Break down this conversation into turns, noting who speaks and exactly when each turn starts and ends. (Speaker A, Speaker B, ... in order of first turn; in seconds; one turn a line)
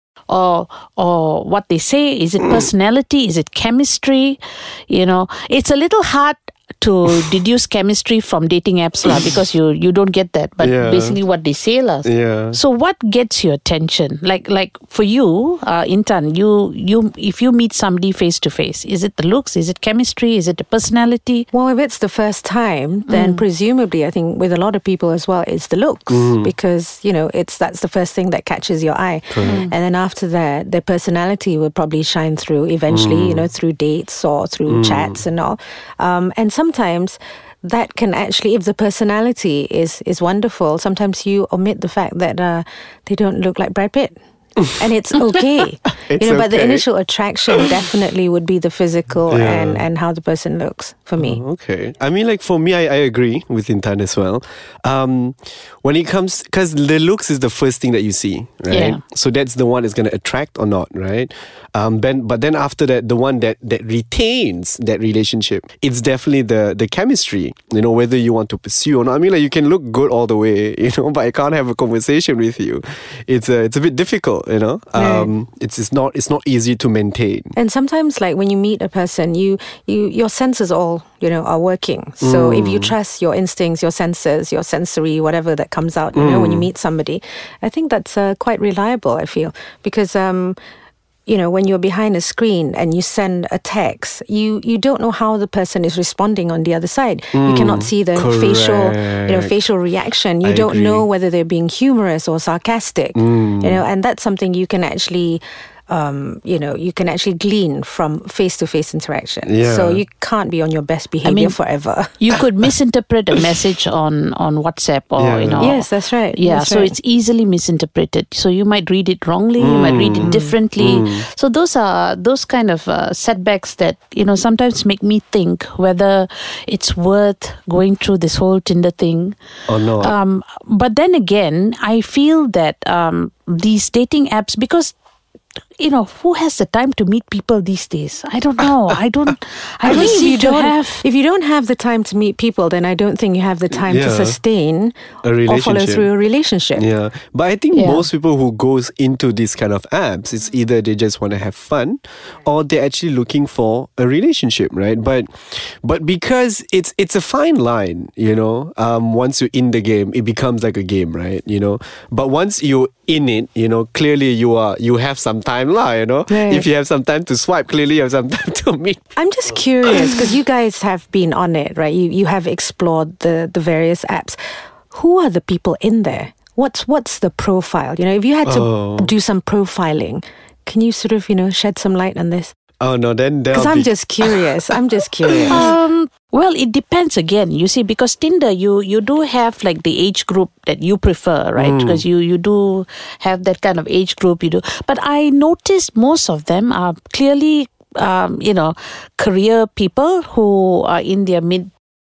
Speaker A: 0.3-21.5
Speaker B: 10.6-11.2
Speaker B: 12.0-12.6
Speaker C: 21.5-44.1
Speaker A: 23.1-23.4
Speaker B: 26.1-26.5
Speaker B: 29.3-29.6
Speaker A: 29.4-29.7
Speaker B: 32.9-33.5
Speaker B: 34.7-35.2
Speaker C: 44.7-51.4
Speaker B: 46.0-46.8
Speaker B: 47.5-47.8
Speaker B: 49.3-49.8
Speaker B: 51.2-77.5
Speaker A: 58.7-59.0
Speaker C: 75.0-75.3
Speaker C: 77.5-90.6
Speaker B: 82.2-82.9
Speaker B: 86.1-86.7
Speaker C: 91.3-112.2
Speaker B: 97.3-99.5
Speaker B: 100.4-101.0
Speaker B: 103.1-103.8
Speaker B: 109.4-110.0
Speaker A: 111.2-111.5
Speaker A: 112.2-129.3
Speaker B: 115.2-115.7
Speaker C: 115.6-117.0
Speaker B: 119.6-121.2
Speaker C: 120.2-120.5
Speaker B: 129.7-130.1
Speaker A: 130.0-134.9
Speaker A: 135.8-141.0
Speaker C: 139.8-146.8
Speaker B: 143.7-144.4
Speaker B: 145.2-146.1
Speaker B: 146.8-169.0
Speaker A: 147.7-148.0
Speaker C: 166.3-166.6
Speaker C: 169.2-174.4
Speaker B: 169.9-170.2
Speaker C: 174.9-182.5
Speaker B: 178.4-179.1
Speaker B: 182.8-184.4
Speaker C: 183.5-185.7
Speaker B: 185.3-185.6
Speaker A: 185.5-201.7
Speaker B: 191.6-192.0